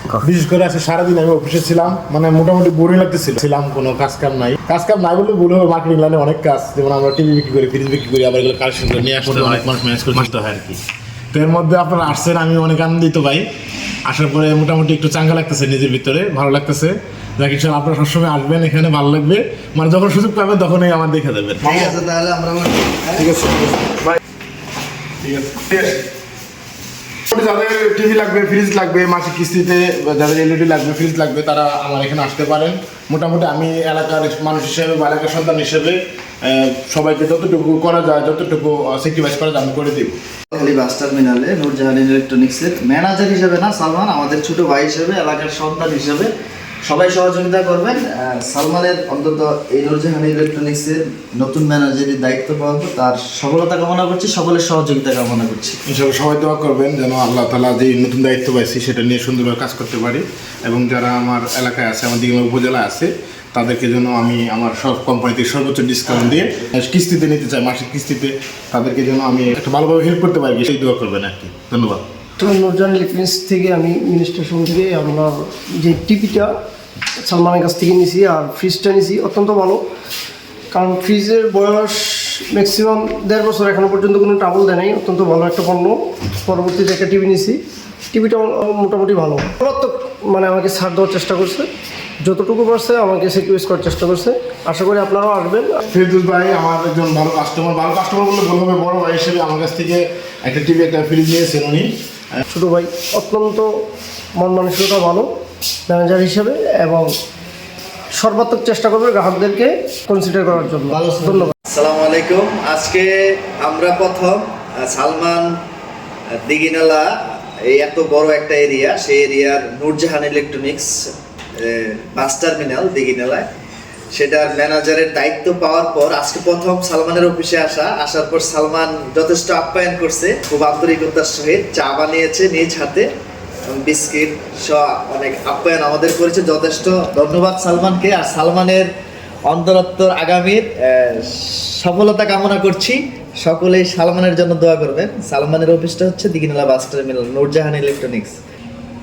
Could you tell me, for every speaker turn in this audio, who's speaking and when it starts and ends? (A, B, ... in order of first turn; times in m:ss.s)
0:00.2-0:10.8 A
0:11.3-0:13.5 A
0:14.1-0:22.0 A
0:21.6-0:23.3 B
0:23.2-0:24.0 A
0:25.2-0:26.0 A
0:27.3-0:40.2 A
0:40.5-0:46.3 B
0:46.8-0:55.8 B
0:55.9-1:12.0 A
1:12.4-1:16.5 C
1:17.2-1:19.8 C
1:20.7-1:27.6 C
1:28.1-1:31.7 C
1:32.2-1:35.8 C
1:35.8-1:41.9 A
1:42.5-1:43.7 C
1:44.4-1:45.3 C
1:45.9-1:47.1 C
1:48.2-1:51.5 C
1:50.9-1:55.5 B
1:56.4-1:57.1 B
1:57.7-2:00.9 B
2:01.6-2:03.5 B
2:04.1-2:13.1 B
2:13.7-2:18.9 B
2:19.5-2:28.4 B